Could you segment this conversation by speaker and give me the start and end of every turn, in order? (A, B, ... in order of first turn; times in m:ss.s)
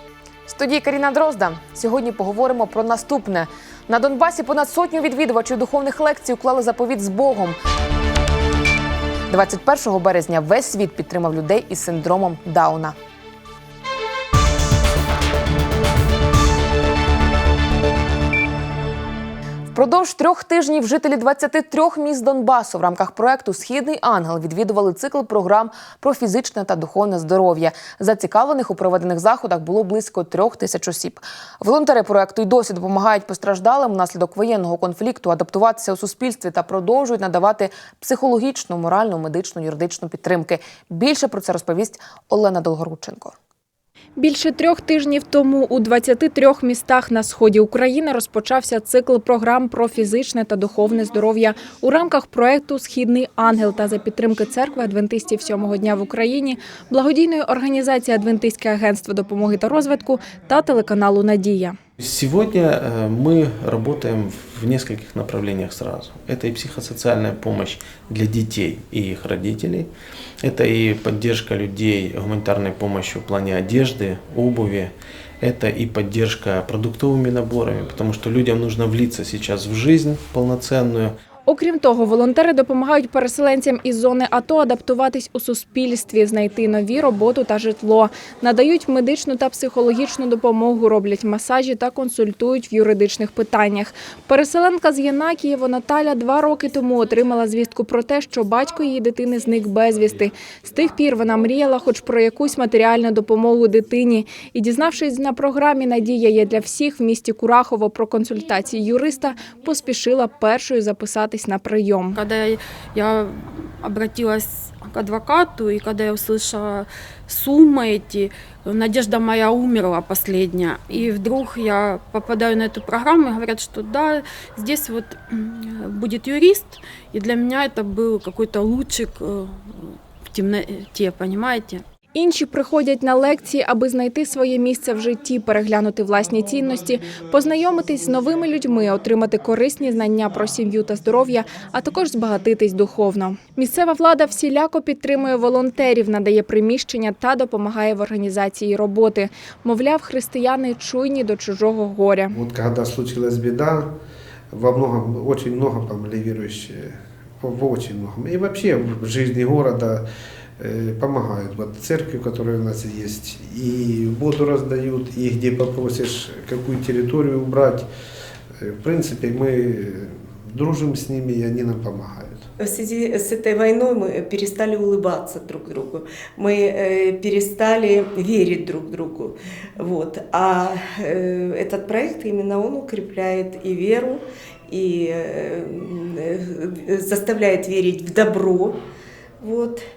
0:00.5-0:07.6 A
0:09.3-0:12.9 A
0:19.7-0:43.3 A
0:44.2-1:01.8 B
1:02.0-1:21.2 C
1:21.5-1:52.2 B
1:52.1-2:11.8 D
2:12.1-2:32.3 B
2:32.3-2:33.9 E
2:34.5-2:40.0 E
2:40.6-2:47.9 E
2:48.6-2:52.4 E
2:52.6-3:08.8 F
3:09.4-3:09.8 F